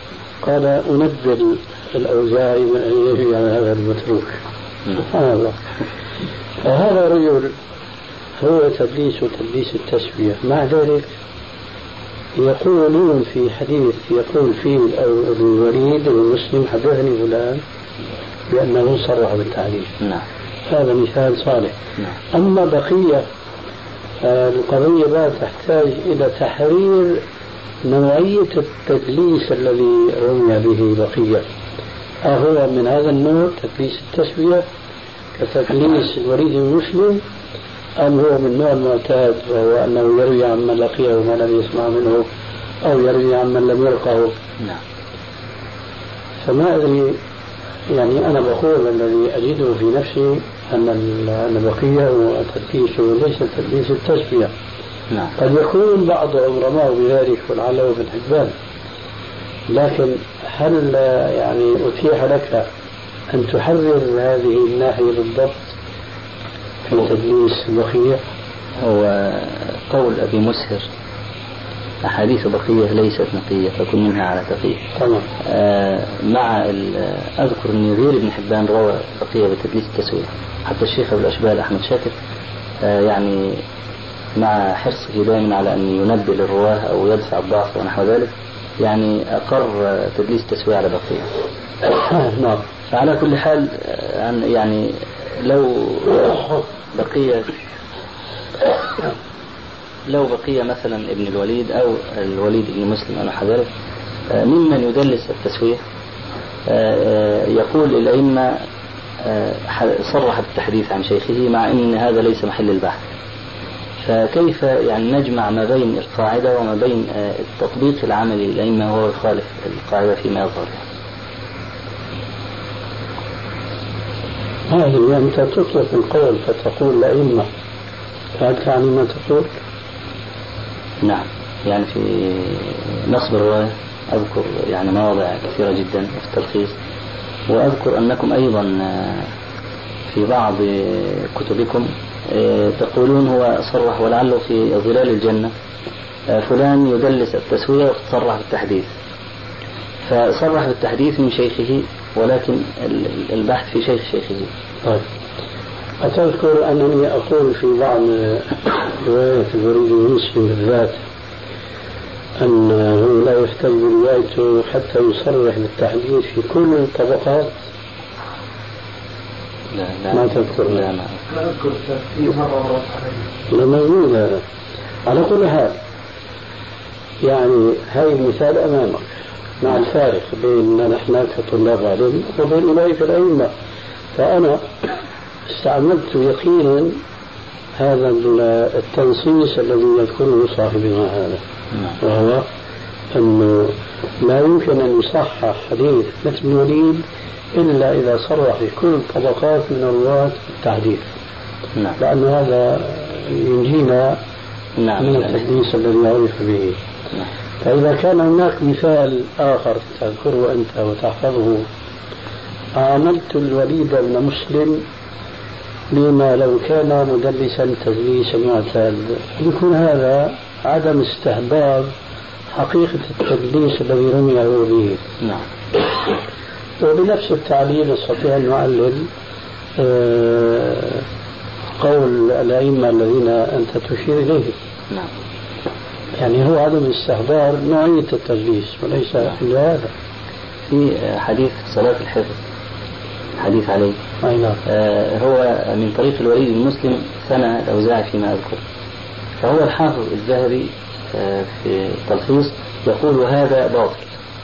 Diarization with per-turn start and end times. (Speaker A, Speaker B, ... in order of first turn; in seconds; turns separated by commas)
Speaker A: 0.4-4.4, Speaker A: 5.0-5.6, Speaker A: 6.6-7.5, Speaker A: 8.4-11.1, Speaker A: 12.4-17.6, Speaker A: 18.5-19.9, Speaker A: 20.7-21.8, Speaker A: 22.3-23.3, Speaker A: 24.2-27.2, Speaker A: 27.8-31.5, Speaker A: 32.2-34.6, Speaker A: 35.4-37.2, Speaker A: 38.0-42.3, Speaker A: 42.8-44.4, Speaker A: 46.4-47.2, Speaker A: 47.9-54.5, Speaker A: 55.4-58.5, Speaker A: 59.7-62.7, Speaker A: 63.3-65.8, Speaker A: 66.8-68.2, Speaker B: 68.8-70.9, Speaker B: 72.0-74.8, Speaker A: 75.0-75.3, Speaker B: 75.4-82.2, Speaker B: 82.8-83.6, Speaker B: 84.4-91.3, Speaker A: 91.8-92.6, Speaker B: 92.9-97.5, Speaker B: 100.1-103.7, Speaker B: 104.3-105.8, Speaker B: 106.7-108.6, Speaker B: 109.2-113.1, Speaker B: 114.0-120.8, Speaker A: 124.7-127.5, Speaker A: 128.4-129.5, Speaker B: 131.0-136.8, Speaker B: 137.5-139.3, Speaker B: 140.1-145.5, Speaker B: 146.3-148.9, Speaker B: 150.1-154.5, Speaker A: 156.0-161.0, Speaker A: 162.4-167.6, Speaker B: 169.7-171.2, Speaker A: 170.1-170.8, Speaker C: 171.3-173.2, Speaker A: 173.5-174.4, Speaker A: 175.1-175.8, Speaker A: 177.2-183.5, Speaker A: 184.1-184.7, Speaker A: 185.5-187.0, Speaker A: 187.8-191.4, Speaker A: 192.0-192.5, Speaker A: 193.1-201.1, Speaker A: 202.0-204.2, Speaker B: 204.8-205.4, Speaker A: 205.0-206.8, Speaker A: 207.6-211.7, Speaker A: 212.8-214.9, Speaker A: 215.9-221.9, Speaker A: 222.5-225.0, Speaker A: 226.8-229.1, Speaker A: 229.8-231.0, Speaker A: 231.8-234.6, Speaker A: 236.2-239.9, Speaker B: 240.7-242.4, Speaker B: 243.4-244.0, Speaker A: 244.2-244.6, Speaker B: 244.7-248.6, Speaker B: 249.4-254.2